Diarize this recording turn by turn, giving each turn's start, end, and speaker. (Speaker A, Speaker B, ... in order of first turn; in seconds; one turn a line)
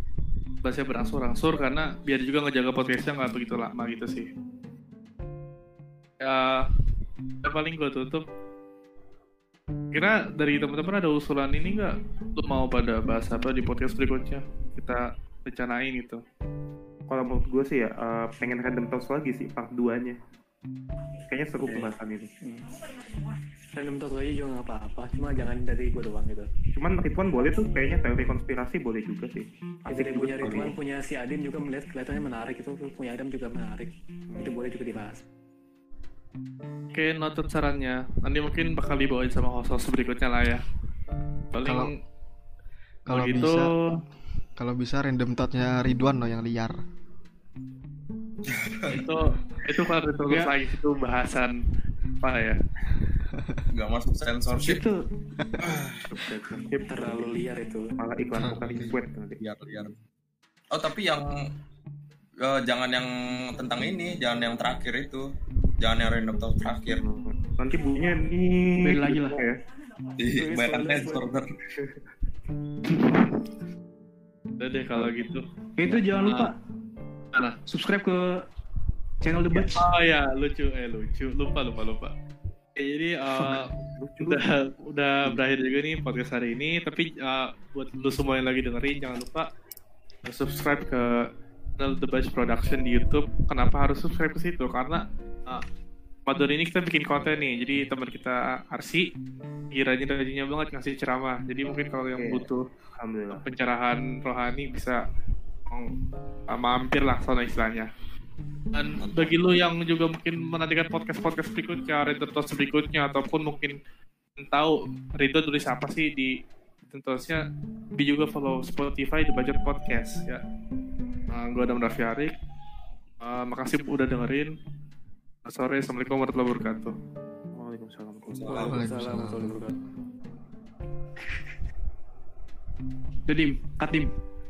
Speaker A: 0.6-4.3
Speaker A: 6.2-6.7
Speaker A: 7.4-8.2
Speaker A: 9.9-16.2
Speaker B: 17.1-20.2
Speaker B: 21.3-22.3
Speaker C: 21.6-21.9
Speaker C: 22.4-22.7
Speaker C: 23.7-26.5
Speaker B: 26.8-30.7
Speaker C: 29.9-35.2
Speaker B: 34.3-34.6
Speaker A: 36.9-40.6
Speaker A: 41.5-41.9
Speaker D: 41.6-41.9
Speaker D: 43.1-43.7
Speaker A: 43.1-43.9
Speaker D: 44.6-46.8
Speaker E: 48.5-49.0
Speaker A: 48.9-51.6
Speaker A: 52.2-52.6
Speaker E: 53.7-54.8
Speaker F: 54.6-55.0
Speaker E: 55.6-56.1
Speaker B: 56.1-57.3
Speaker C: 56.8-57.9
Speaker B: 58.0-59.4
Speaker D: 58.4-58.9
Speaker E: 58.6-60.0
Speaker E: 60.7-61.2
Speaker E: 62.4-65.3
Speaker E: 65.8-67.0
Speaker B: 66.9-69.6
Speaker F: 68.8-69.4
Speaker E: 70.2-71.5
Speaker C: 70.3-71.2
Speaker A: 74.6-75.5
Speaker F: 75.8-76.5
Speaker A: 76.1-76.5
Speaker F: 77.7-78.2
Speaker F: 79.2-79.8
Speaker A: 79.8-82.1
Speaker A: 82.8-89.5
Speaker B: 84.0-84.4
Speaker A: 90.2-91.2
Speaker A: 91.8-95.6
Speaker A: 96.3-99.1
Speaker A: 99.7-102.7
Speaker B: 102.2-102.5
Speaker B: 103.0-103.4
Speaker A: 103.3-105.0
Speaker A: 106.5-107.9
Speaker A: 108.7-113.8
Speaker E: 109.0-109.3
Speaker A: 114.4-116.3
Speaker A: 116.9-117.4
Speaker A: 118.0-120.4
Speaker A: 121.3-122.3
Speaker A: 123.2-124.5
Speaker A: 125.5-127.0
Speaker B: 127.5-128.7
Speaker E: 128.3-128.7
Speaker C: 128.5-129.7
Speaker D: 128.5-129.6
Speaker F: 133.3-134.1